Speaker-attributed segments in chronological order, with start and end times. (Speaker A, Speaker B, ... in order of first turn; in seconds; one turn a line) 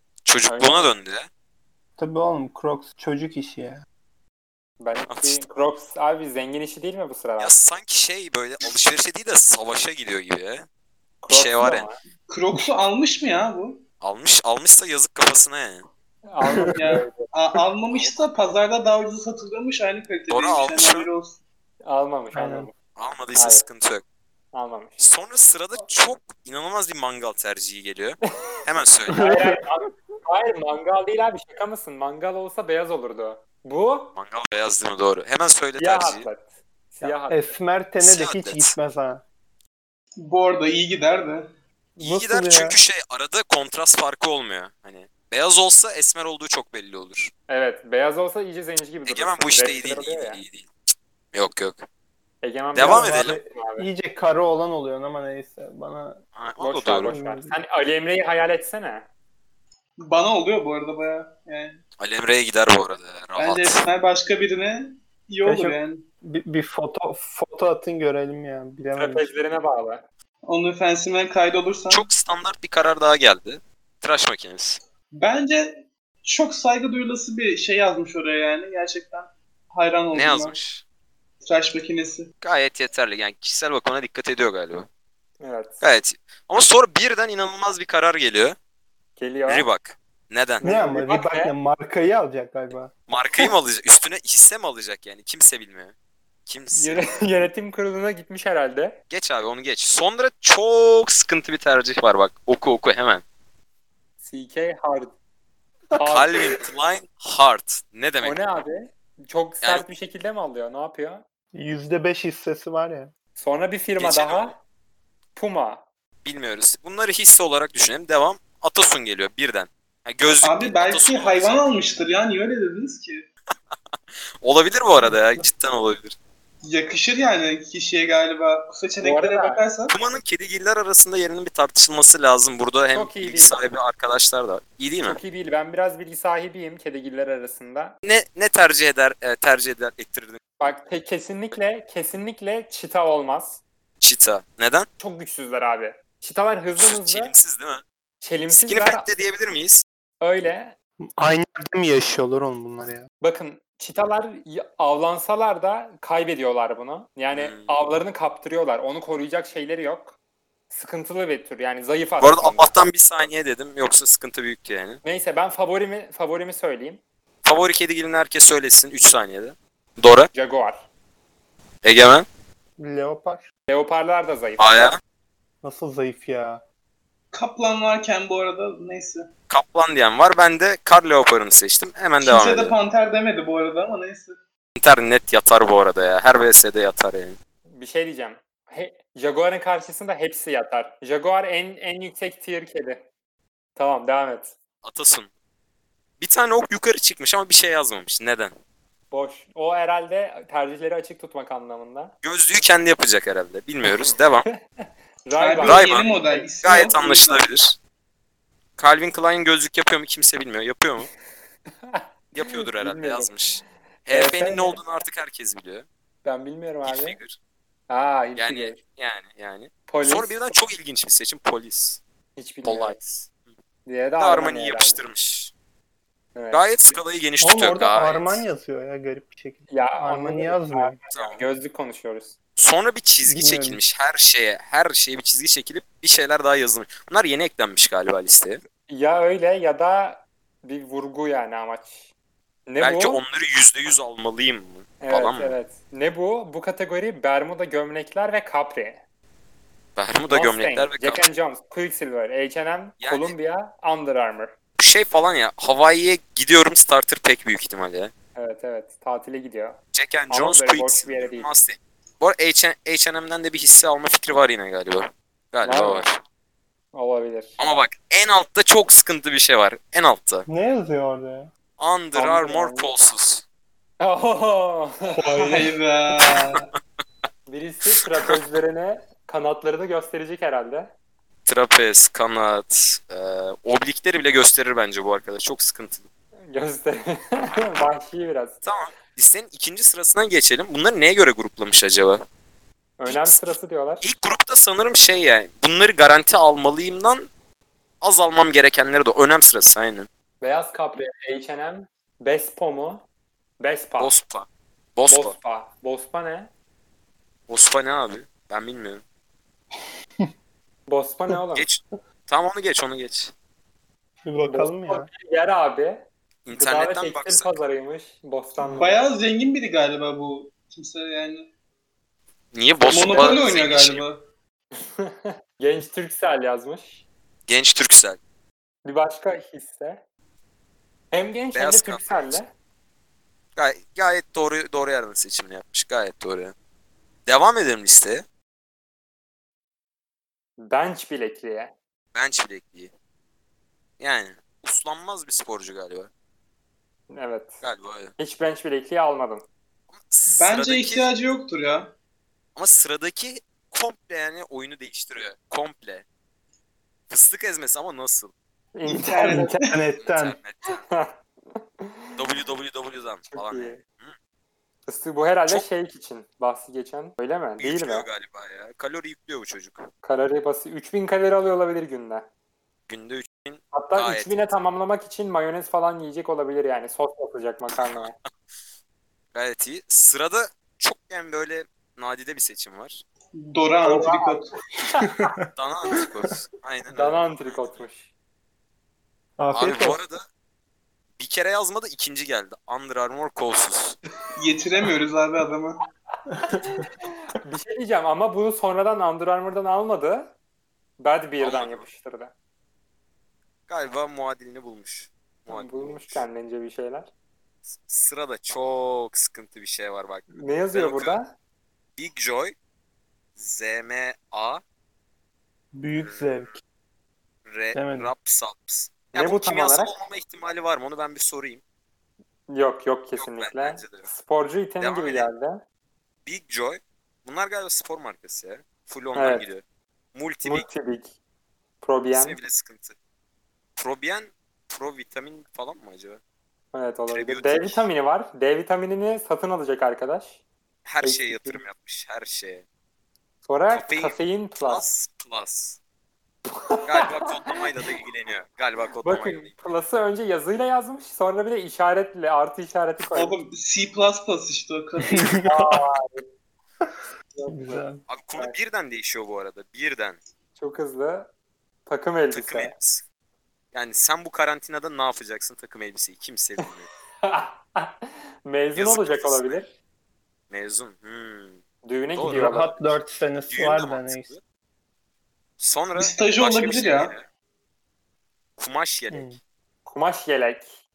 Speaker A: 0.2-1.3
Speaker B: 0.5-0.9
Speaker C: 2.0-3.8
Speaker B: 4.8-7.5
Speaker A: 5.1-5.4
Speaker A: 7.4-10.7
Speaker B: 11.2-12.0
Speaker A: 11.3-11.9
Speaker D: 12.3-13.8
Speaker A: 14.0-15.8
Speaker B: 16.3-17.2
Speaker C: 16.4-17.0
Speaker D: 16.7-21.4
Speaker A: 20.3-21.1
Speaker B: 21.8-22.7
Speaker C: 22.3-22.7
Speaker A: 22.9-24.0
Speaker B: 23.3-23.6
Speaker B: 24.5-25.0
Speaker A: 25.0-29.4
Speaker C: 29.1-29.6
Speaker B: 29.1-34.1
Speaker A: 34.1-36.3
Speaker B: 35.8-37.5
Speaker C: 37.0-39.2
Speaker A: 38.0-38.7
Speaker D: 40.2-41.5
Speaker C: 42.0-42.8
Speaker A: 42.0-47.3
Speaker B: 47.5-50.4
Speaker A: 49.0-50.7
Speaker A: 51.3-51.8
Speaker B: 52.4-53.9
Speaker A: 52.7-53.4
Speaker C: 52.8-56.2
Speaker A: 56.3-57.1
Speaker B: 56.6-59.1
Speaker C: 57.0-57.5
Speaker D: 60.0-61.8
Speaker A: 62.0-63.9
Speaker D: 63.4-66.0
Speaker C: 65.4-69.2
Speaker B: 69.0-70.0
Speaker D: 70.5-72.0
Speaker A: 71.9-74.8
Speaker D: 75.1-80.5
Speaker A: 80.1-80.8
Speaker D: 81.4-82.3
Speaker A: 82.4-84.9
Speaker B: 85.4-85.8
Speaker A: 85.8-88.5
Speaker B: 89.2-89.7
Speaker A: 89.5-90.7
Speaker B: 90.6-91.5
Speaker C: 90.6-92.9
Speaker A: 93.1-95.9
Speaker A: 96.5-97.2
Speaker B: 96.7-99.0
Speaker A: 99.1-103.2
Speaker B: 104.2-105.1
Speaker B: 106.0-106.4
Speaker A: 106.0-108.4
Speaker B: 108.2-111.2
Speaker A: 109.6-109.9
Speaker C: 111.5-113.1
Speaker B: 113.3-114.6
Speaker A: 114.0-114.5
Speaker B: 115.3-115.8
Speaker A: 116.2-121.6
Speaker D: 120.4-123.2
Speaker A: 124.4-126.2
Speaker D: 126.7-129.9
Speaker B: 129.0-129.6
Speaker A: 129.9-135.2
Speaker B: 132.9-133.6
Speaker B: 135.0-137.9
Speaker A: 138.0-140.4
Speaker B: 140.6-143.6
Speaker A: 144.0-144.9
Speaker B: 145.0-147.3
Speaker A: 146.8-147.8
Speaker B: 148.2-149.1
Speaker A: 148.5-149.8
Speaker B: 150.2-150.7
Speaker C: 151.2-153.1
Speaker B: 153.2-160.1
Speaker A: 157.3-157.7
Speaker B: 160.7-162.7
Speaker A: 162.2-165.0
Speaker B: 165.0-167.0
Speaker A: 167.4-170.3
Speaker B: 170.3-170.8
Speaker A: 171.8-172.2
Speaker C: 172.8-173.4
Speaker B: 173.7-174.9
Speaker A: 174.6-175.0
Speaker C: 175.6-176.6
Speaker D: 177.3-179.3
Speaker A: 179.5-182.8
Speaker D: 182.2-184.4
Speaker A: 184.8-187.3
Speaker B: 187.7-193.0
Speaker B: 193.8-194.6
Speaker A: 194.8-195.3
Speaker A: 196.2-198.5
Speaker B: 199.1-202.1
Speaker A: 202.2-204.5
Speaker B: 204.8-206.5
Speaker D: 205.4-207.4
Speaker A: 205.6-206.1
Speaker A: 206.6-207.8
Speaker A: 208.8-211.1
Speaker B: 211.8-213.3
Speaker A: 212.3-215.8
Speaker B: 214.1-214.8
Speaker B: 216.2-217.2
Speaker A: 216.8-217.4
Speaker B: 217.9-218.8
Speaker A: 218.3-222.0
Speaker B: 219.9-220.6
Speaker B: 222.3-223.0
Speaker A: 222.6-223.3
Speaker B: 223.8-225.0
Speaker A: 224.2-225.5
Speaker B: 226.3-226.8
Speaker A: 226.5-228.4
Speaker C: 227.4-231.0
Speaker B: 229.7-232.3
Speaker A: 231.1-231.4
Speaker A: 232.6-238.6
Speaker C: 233.2-233.8
Speaker B: 238.9-242.1
Speaker B: 242.7-243.2
Speaker A: 242.8-245.5
Speaker B: 245.0-249.0
Speaker A: 249.9-251.2
Speaker B: 250.3-254.5
Speaker A: 253.0-253.3
Speaker A: 254.8-258.1
Speaker B: 258.4-259.8
Speaker A: 259.9-266.2
Speaker B: 260.3-261.5
Speaker B: 265.6-266.1
Speaker B: 266.9-267.6
Speaker A: 267.6-270.4
Speaker C: 270.5-271.5
Speaker A: 271.8-273.4
Speaker B: 272.1-272.9
Speaker B: 274.0-275.4
Speaker C: 275.1-275.7
Speaker D: 275.4-276.6
Speaker A: 276.3-276.6
Speaker B: 277.5-280.9
Speaker A: 281.4-286.1
Speaker B: 286.5-288.6
Speaker A: 288.6-292.2
Speaker B: 293.0-294.0
Speaker A: 293.1-297.3
Speaker A: 298.0-300.1
Speaker B: 300.4-303.0
Speaker B: 303.6-304.1
Speaker A: 304.0-305.3
Speaker B: 305.1-306.5
Speaker A: 307.5-309.0
Speaker B: 310.9-311.6
Speaker A: 311.5-313.3
Speaker C: 314.2-315.1
Speaker B: 314.4-319.0
Speaker A: 316.4-317.6
Speaker D: 318.6-321.5
Speaker A: 322.5-324.1
Speaker D: 322.9-324.2
Speaker B: 323.1-323.4
Speaker B: 324.8-327.0
Speaker A: 327.5-328.2
Speaker B: 328.8-330.0
Speaker B: 331.1-332.5
Speaker A: 331.5-332.4
Speaker A: 333.6-336.5
Speaker A: 337.2-338.2
Speaker B: 340.6-341.7
Speaker A: 342.1-342.9
Speaker A: 344.0-346.1
Speaker B: 347.1-347.6
Speaker A: 347.6-348.1
Speaker B: 348.2-349.4
Speaker A: 349.9-351.1
Speaker D: 350.4-351.9
Speaker A: 352.6-356.0
Speaker A: 357.1-358.3
Speaker B: 358.7-359.6
Speaker D: 358.9-359.8
Speaker C: 359.3-360.4
Speaker A: 360.0-360.8
Speaker B: 360.7-362.1
Speaker A: 362.2-364.1
Speaker B: 363.3-363.8
Speaker B: 364.9-368.1
Speaker A: 367.6-369.9
Speaker B: 370.0-372.3
Speaker A: 372.9-374.6
Speaker B: 373.7-378.1
Speaker A: 377.7-378.1
Speaker A: 379.3-383.0
Speaker D: 383.3-384.5
Speaker B: 383.8-385.1
Speaker C: 385.0-385.3
Speaker A: 385.5-387.8
Speaker B: 386.9-388.1
Speaker C: 389.4-390.0
Speaker A: 389.5-390.2
Speaker A: 391.2-394.0
Speaker D: 394.4-395.8
Speaker B: 396.5-400.3
Speaker B: 401.0-402.3
Speaker A: 401.4-401.9
Speaker A: 403.7-406.2
Speaker B: 405.5-407.1
Speaker A: 407.6-411.2
Speaker B: 410.3-411.3
Speaker A: 412.0-412.5
Speaker A: 413.4-414.6
Speaker C: 415.7-416.6
Speaker A: 416.0-416.5
Speaker A: 417.4-421.6
Speaker C: 417.7-418.1
Speaker B: 419.1-419.9
Speaker B: 422.5-425.6
Speaker A: 423.2-424.1
Speaker A: 424.8-425.3
Speaker A: 426.2-429.6
Speaker B: 429.1-429.5
Speaker A: 430.1-430.7
Speaker B: 430.4-431.1
Speaker B: 431.8-432.4
Speaker A: 432.1-432.9
Speaker A: 433.8-436.2
Speaker B: 436.7-440.4
Speaker A: 437.1-437.9
Speaker A: 440.8-442.6
Speaker B: 441.0-441.6
Speaker B: 443.5-444.8
Speaker A: 443.7-445.8
Speaker B: 446.6-447.6
Speaker A: 446.9-449.5
Speaker B: 449.0-453.4
Speaker D: 453.1-455.4
Speaker C: 455.1-455.6
Speaker B: 455.4-456.2
Speaker B: 457.3-457.9
Speaker C: 457.5-458.0
Speaker A: 458.1-460.2
Speaker B: 460.6-461.3
Speaker B: 461.9-462.7
Speaker A: 462.3-463.0
Speaker A: 463.7-466.9
Speaker B: 467.2-469.7
Speaker A: 468.7-469.6
Speaker A: 470.5-471.6
Speaker B: 471.8-472.8
Speaker A: 472.1-472.6
Speaker C: 472.3-474.3
Speaker A: 473.5-474.4
Speaker A: 475.6-477.3
Speaker D: 476.0-477.1
Speaker A: 478.6-479.4
Speaker C: 479.1-479.4
Speaker B: 479.9-480.8